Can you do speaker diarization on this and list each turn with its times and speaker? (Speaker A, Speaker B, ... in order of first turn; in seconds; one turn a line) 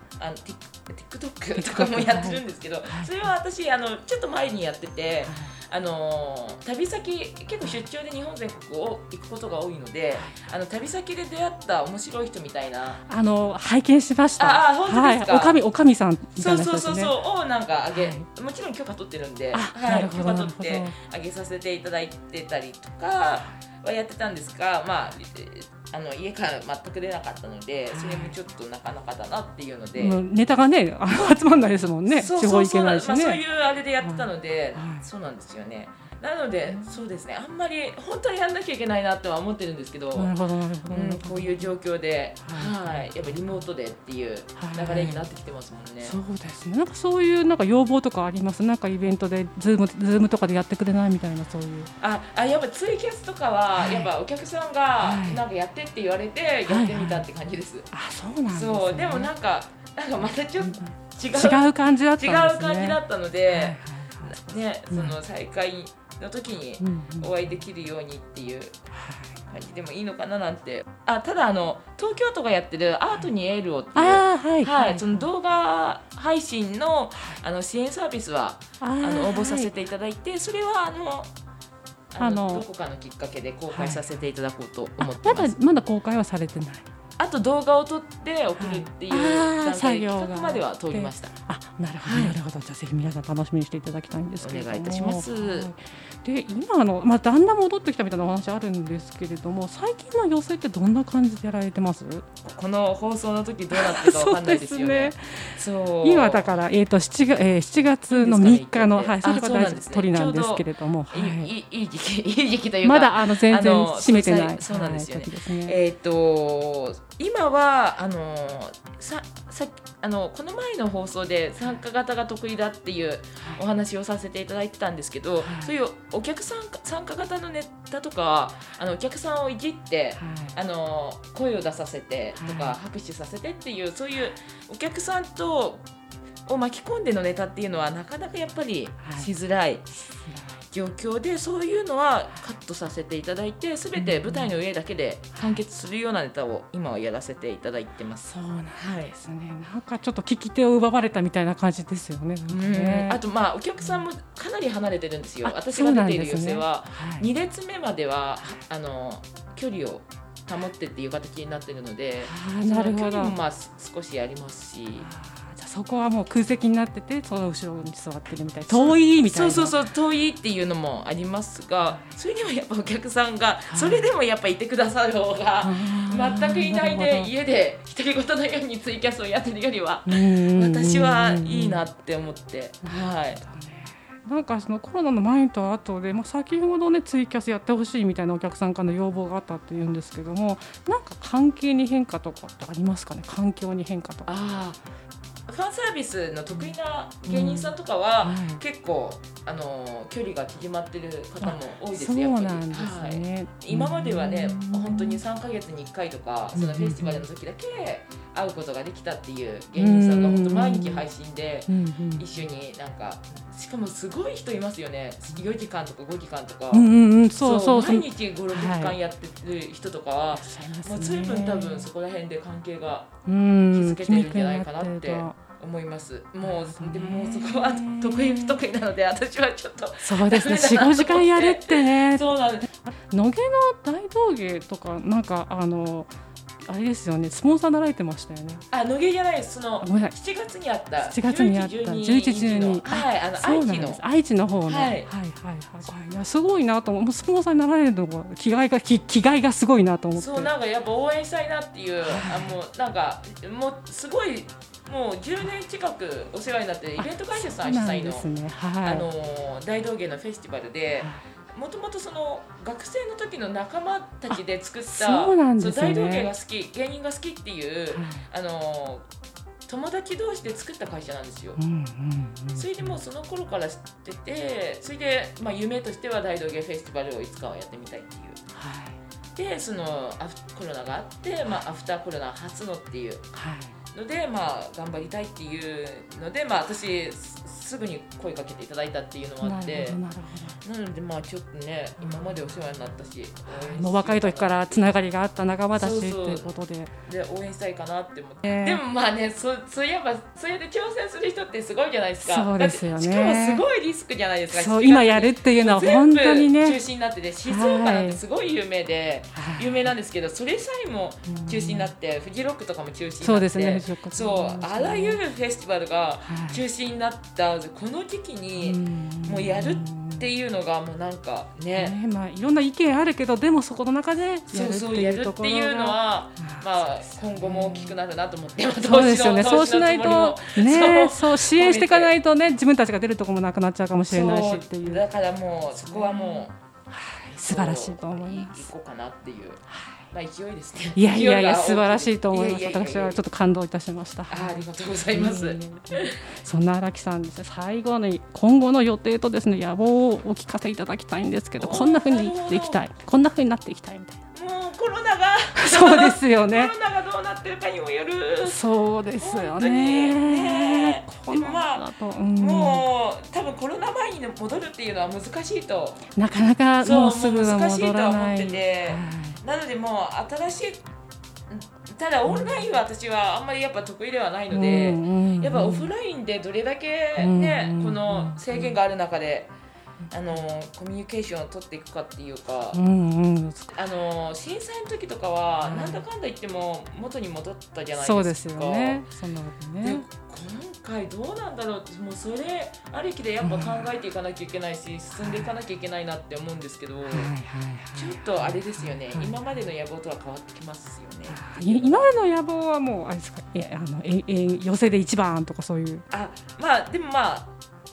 Speaker A: 0.2-13.0
Speaker B: 1.6-3.1
Speaker B: 5.2-5.5
Speaker B: 13.1-17.1
Speaker A: 14.4-15.6
Speaker A: 16.4-30.2
Speaker B: 17.9-18.3
Speaker B: 19.5-20.9
Speaker B: 27.9-28.4
Speaker B: 30.0-33.4
Speaker A: 32.1-40.3
Speaker B: 34.0-35.1
Speaker B: 40.1-41.7
Speaker A: 40.9-46.2
Speaker B: 42.4-43.1
Speaker B: 44.6-45.2
Speaker B: 46.0-51.9
Speaker A: 52.0-57.9
Speaker B: 53.8-54.1
Speaker B: 55.0-55.5
Speaker B: 56.7-57.3
Speaker B: 57.9-59.3
Speaker A: 58.5-68.8
Speaker B: 60.6-64.4
Speaker B: 64.9-65.2
Speaker B: 66.8-67.3
Speaker B: 68.9-69.3
Speaker A: 69.5-81.3
Speaker B: 74.0-75.3
Speaker B: 78.8-79.7
Speaker A: 82.1-85.6
Speaker B: 82.2-82.7
Speaker B: 83.7-84.0
Speaker B: 85.0-86.9
Speaker A: 87.2-91.3
Speaker B: 88.6-102.3
Speaker A: 92.0-92.4
Speaker A: 94.4-95.7
Speaker A: 102.4-106.5
Speaker B: 103.7-111.5
Speaker A: 108.1-135.8
Speaker B: 112.8-115.8
Speaker B: 125.4-125.7
Speaker B: 130.2-130.6
Speaker B: 132.4-132.8
Speaker A: 136.5-139.9
Speaker B: 139.1-139.3
Speaker B: 140.0-140.6
Speaker A: 140.7-149.1
Speaker B: 144.0-144.5
Speaker B: 145.4-145.6
Speaker B: 148.2-153.2
Speaker A: 152.5-165.1
Speaker B: 155.4-157.3
Speaker B: 162.2-163.4
Speaker B: 165.0-169.8
Speaker A: 168.7-183.4
Speaker B: 171.8-172.1
Speaker B: 173.7-174.1
Speaker B: 175.6-177.3
Speaker B: 180.1-181.8
Speaker B: 182.8-194.3
Speaker A: 194.3-194.8
Speaker A: 195.5-223.2
Speaker B: 197.3-198.6
Speaker B: 201.4-205.2
Speaker B: 206.5-207.3
Speaker B: 209.8-211.1
Speaker B: 211.7-212.3
Speaker B: 216.7-219.0
Speaker B: 220.3-221.9
Speaker B: 223.3-225.4
Speaker A: 223.7-232.7
Speaker B: 226.4-228.6
Speaker B: 230.0-232.3
Speaker B: 232.9-236.1
Speaker B: 236.7-238.6
Speaker A: 238.7-244.0
Speaker B: 239.8-240.1
Speaker B: 241.1-250.5
Speaker A: 244.7-245.1
Speaker A: 250.2-258.3
Speaker B: 252.0-252.6
Speaker B: 257.0-259.1
Speaker A: 258.8-269.1
Speaker B: 264.3-266.3
Speaker B: 267.9-268.2
Speaker A: 269.7-271.6
Speaker B: 271.6-273.0
Speaker A: 272.6-278.4
Speaker B: 278.5-279.0
Speaker A: 279.4-283.3
Speaker B: 283.3-283.7
Speaker A: 283.9-290.0
Speaker B: 289.4-290.6
Speaker A: 290.6-294.9
Speaker B: 292.0-292.3
Speaker B: 293.5-296.9
Speaker A: 295.8-296.5
Speaker A: 297.1-322.0
Speaker B: 298.4-298.8
Speaker B: 302.2-303.6
Speaker B: 304.5-306.8
Speaker B: 307.4-308.2
Speaker B: 309.4-309.9
Speaker B: 311.3-311.9
Speaker B: 313.2-315.2
Speaker B: 316.2-316.6
Speaker B: 318.6-320.3
Speaker B: 321.8-328.0
Speaker A: 324.5-332.1
Speaker B: 328.8-335.0
Speaker A: 334.1-336.6
Speaker B: 335.9-338.7
Speaker A: 337.4-343.2
Speaker B: 340.9-344.6
Speaker A: 344.3-346.2
Speaker B: 345.1-354.2
Speaker A: 351.6-352.8
Speaker A: 354.3-358.6
Speaker B: 355.6-356.7
Speaker B: 358.4-362.9
Speaker A: 359.2-366.1
Speaker B: 366.2-369.4
Speaker A: 366.8-370.8
Speaker A: 371.5-379.5
Speaker B: 372.2-372.7
Speaker B: 374.5-375.9
Speaker B: 377.2-378.8
Speaker A: 380.1-382.8
Speaker B: 382.7-383.7
Speaker A: 383.7-389.0
Speaker B: 385.6-386.0
Speaker B: 387.9-390.1
Speaker A: 389.8-397.3
Speaker B: 393.4-393.9
Speaker B: 395.2-395.5
Speaker B: 397.1-399.4
Speaker A: 398.0-402.1
Speaker B: 401.3-406.0
Speaker A: 406.1-407.5